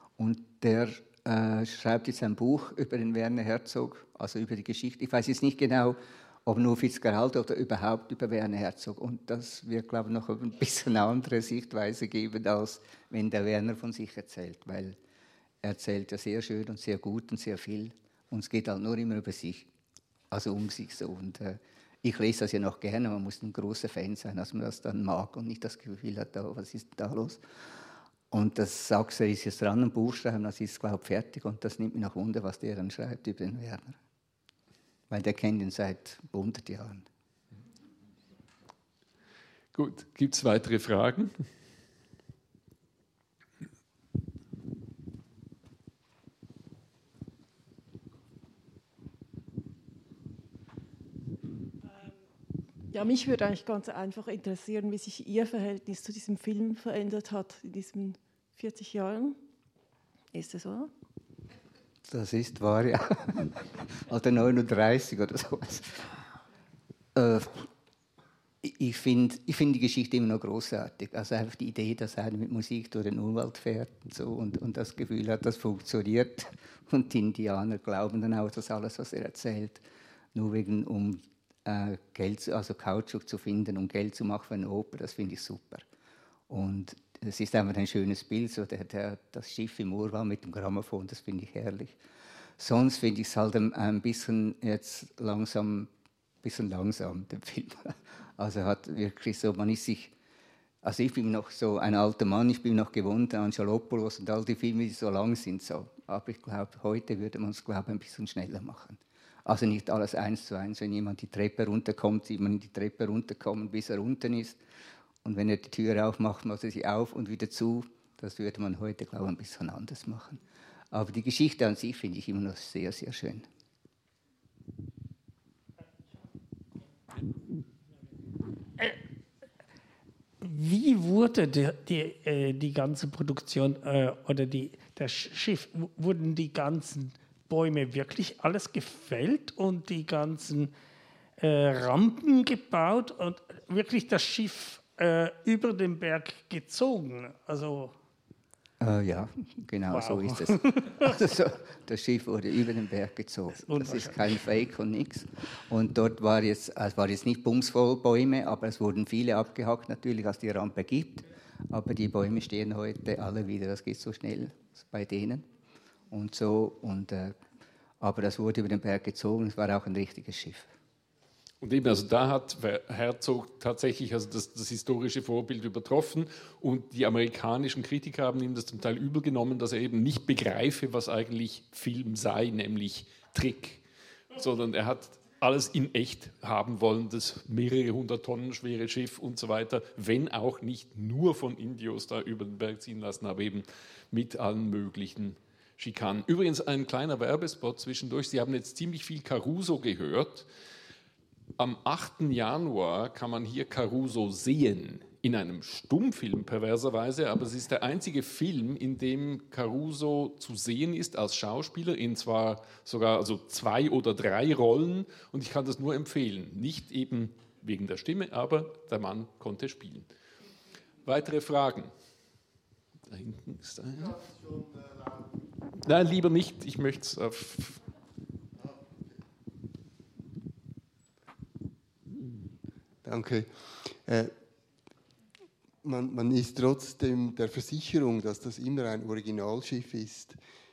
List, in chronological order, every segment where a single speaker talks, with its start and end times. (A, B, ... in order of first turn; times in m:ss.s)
0:00.2-0:15.0 A
0:15.6-0:19.7 A
0:20.3-0:27.4 A
0:28.3-0:34.0 A
0:35.1-0:37.0 A
0:39.7-0:41.4 B
0:52.9-0:59.4 C
1:00.3-1:00.9 C
1:02.1-1:06.0 A
1:07.1-1:07.7 A
1:08.6-1:19.8 A
1:20.3-1:25.8 A
1:26.5-1:32.0 A
1:32.6-1:35.9 A
1:36.4-1:40.1 A
1:40.8-1:54.6 A
1:55.2-2:00.4 A
2:00.9-2:03.4 A
2:10.4-2:20.7 D
2:21.4-2:27.9 D
2:28.8-2:45.4 A
2:29.9-2:31.4 D
2:33.5-2:34.2 D
2:46.1-2:47.4 A
2:48.0-2:50.7 A
2:51.6-3:03.8 B
3:04.3-3:20.5 B
3:21.6-3:40.1 B
3:41.0-3:41.9 B
3:43.1-3:44.2 B
3:45.8-3:47.8 B
3:53.0-3:53.5 E
3:54.0-3:54.3 E
3:55.8-4:00.4 E